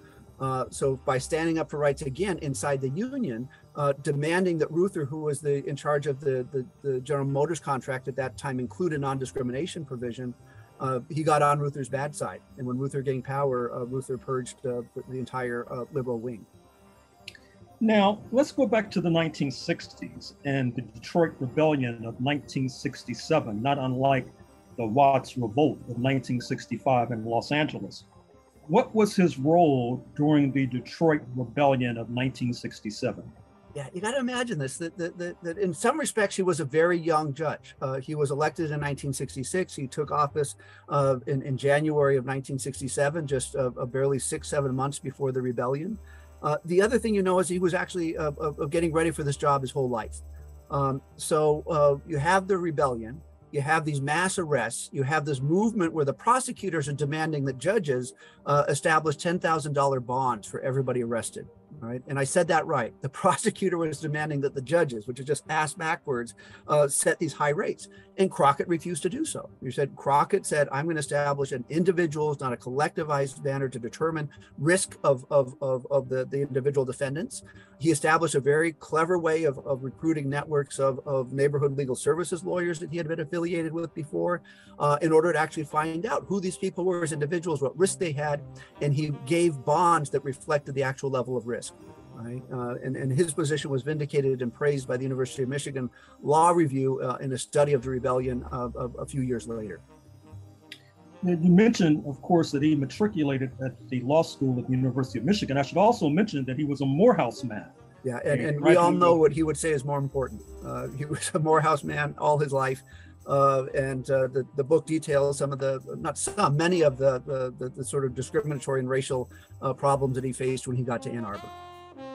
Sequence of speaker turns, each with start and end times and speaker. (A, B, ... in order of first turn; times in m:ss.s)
0:00.4-0:16.5 A
0:17.8-0:28.1 B
0:28.7-0:33.3 B
0:33.7-1:39.8 A
1:41.2-1:47.7 B
1:48.0-2:01.5 A
1:48.3-1:49.2 B